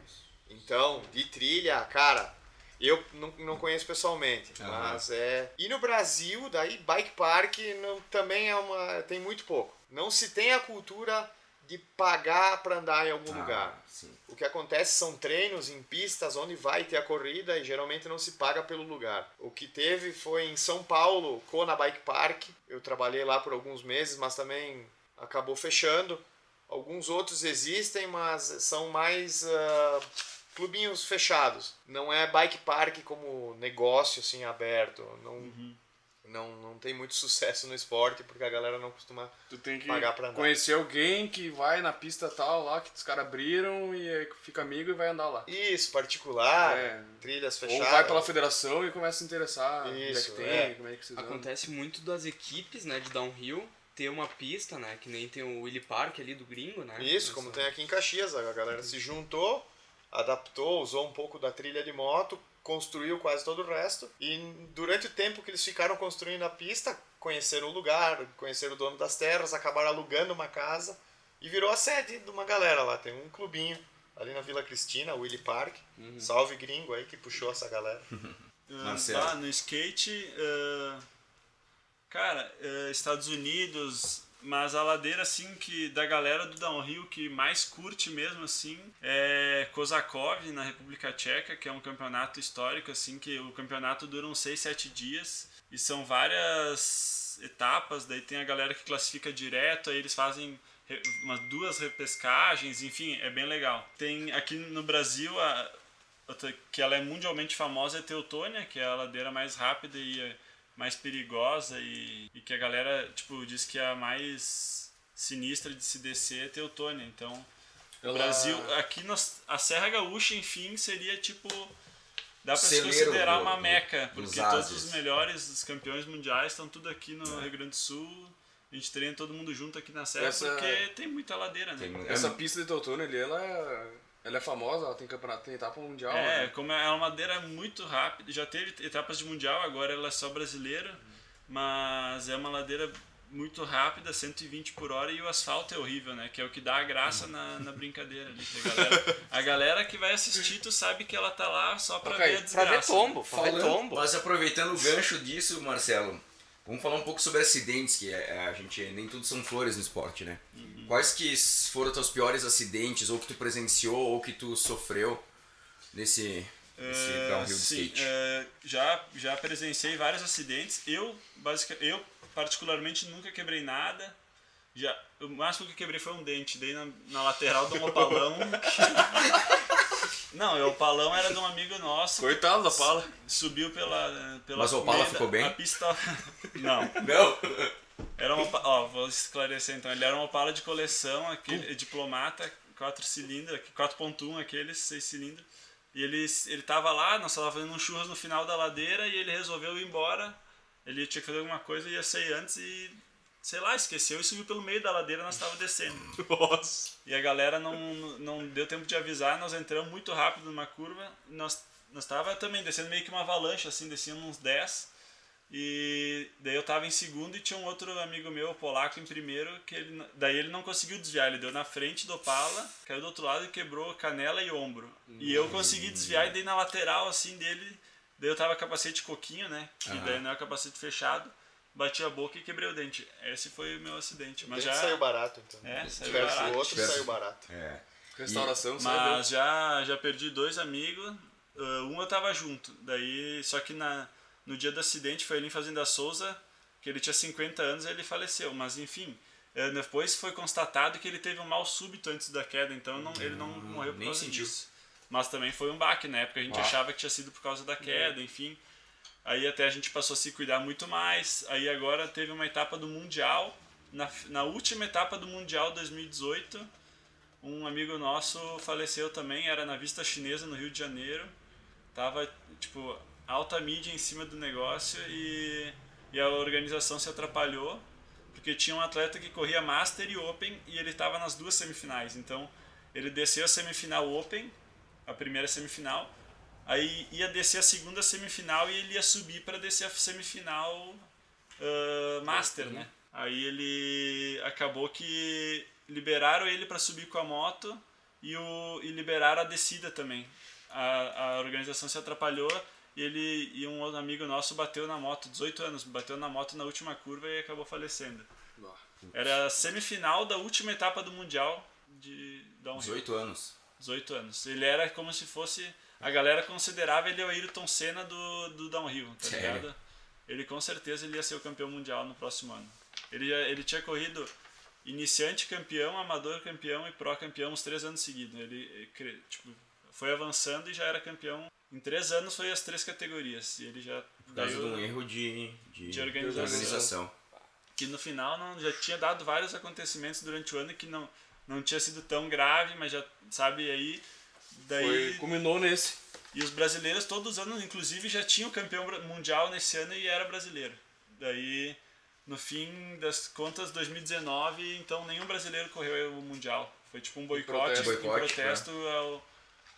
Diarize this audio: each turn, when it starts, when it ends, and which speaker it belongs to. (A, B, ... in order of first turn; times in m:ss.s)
0:00.5-0:13.8 A
0:04.6-0:05.0 B
0:13.3-0:14.2 B
0:14.3-0:35.6 A
0:35.4-0:35.8 C
0:36.2-0:40.6 A
0:39.5-0:45.5 D
0:45.5-0:48.3 A
0:46.6-0:51.5 D
0:49.8-0:50.7 A
0:50.4-0:57.7 E
0:57.0-1:18.0 A
1:16.0-1:16.3 D
1:18.1-1:19.4 B
1:18.7-1:21.0 C
1:22.1-1:45.7 C
1:46.3-1:57.5 C
1:58.0-1:58.7 D
1:58.0-2:01.7 C
2:02.4-2:11.9 C
2:02.5-2:05.0 B
2:10.2-2:10.9 D
2:11.8-2:12.4 B
2:12.0-2:16.5 D
2:16.1-2:33.2 C
2:28.7-2:29.1 D
2:32.0-2:32.4 D
2:32.5-2:34.0 E
2:33.3-2:45.2 B
2:40.5-2:41.1 C
2:45.9-2:48.1 B
2:46.8-2:54.2 C
2:54.7-2:59.5 C
3:00.3-3:07.0 C
3:02.2-3:03.1 D
3:04.5-3:05.6 B
3:06.9-3:07.7 B
3:08.2-3:26.2 C
3:26.2-3:26.9 D
3:27.0-3:34.9 C
3:35.5-3:55.0 C
3:45.1-3:45.6 D
3:45.2-3:46.3 B
3:49.8-3:50.2 B
3:54.4-3:57.5 A
3:55.6-3:57.1 C
3:55.8-3:58.6 B
3:58.2-3:59.2 D
3:58.8-4:18.6 C
4:13.1-4:14.5 B
4:16.5-4:16.8 B
4:17.8-4:18.1 D
4:19.2-4:26.7 C
4:27.4-4:31.3 C
4:31.9-4:44.5 C
4:45.1-4:46.1 C
4:46.6-5:08.3 C
4:52.3-4:52.9 B
5:08.6-5:08.8 D
5:09.0-5:09.4 B
5:09.1-5:13.0 C
5:12.8-5:13.5 B
5:13.8-5:24.3 C
5:19.2-5:19.6 B
5:24.8-5:34.9 C
5:34.3-5:37.1 B
5:35.8-5:36.8 C
5:36.2-5:36.9 D
5:37.8-5:45.3 C
5:44.8-5:46.0 D
5:46.3-5:59.2 C
5:57.3-5:58.0 D
5:57.7-5:58.7 B